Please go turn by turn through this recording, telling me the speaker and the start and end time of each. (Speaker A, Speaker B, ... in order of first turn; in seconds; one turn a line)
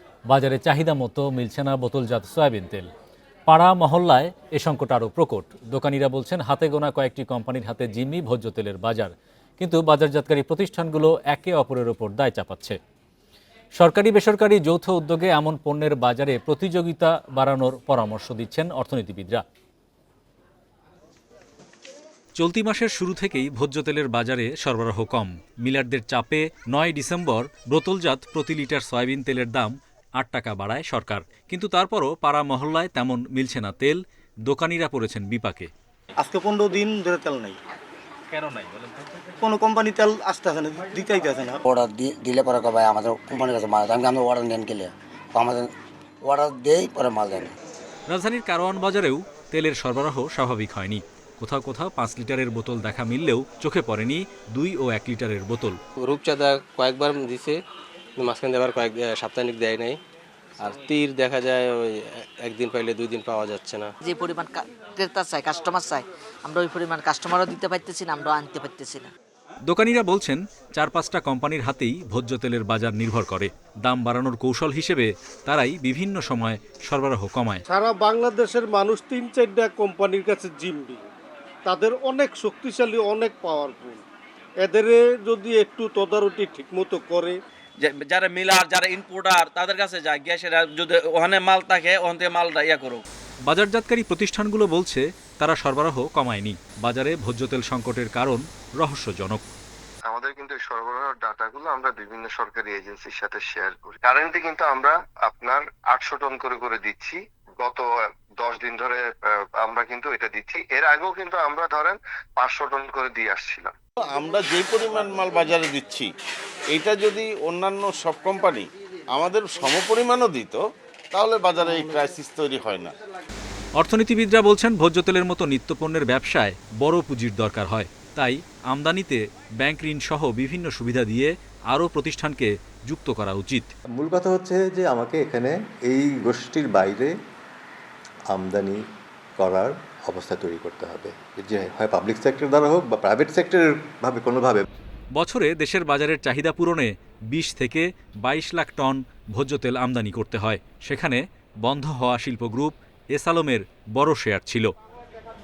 Speaker A: 0.3-2.9
Speaker A: 3.5-12.8
Speaker A: 13.8-19.4
Speaker A: 22.4-35.7
Speaker B: 36.2-37.5
Speaker B: 39.4-41.5
Speaker C: 41.7-47.5
Speaker A: 48.1-55.8
Speaker D: 56.0-57.6
Speaker D: 58.2-60.0
Speaker D: 60.6-63.9
Speaker E: 64.0-69.1
Speaker A: 69.7-77.6
Speaker F: 77.7-81.0
Speaker F: 81.7-84.0
Speaker F: 84.6-87.4
Speaker G: 87.8-93.0
Speaker A: 93.5-99.4
Speaker H: 100.1-107.8
Speaker H: 108.4-113.7
Speaker I: 114.0-116.1
Speaker I: 116.7-120.6
Speaker I: 121.1-122.9
Speaker A: 123.8-133.7
Speaker J: 134.0-137.1
Speaker J: 138.3-138.8
Speaker J: 139.4-144.6
Speaker A: 145.2-154.7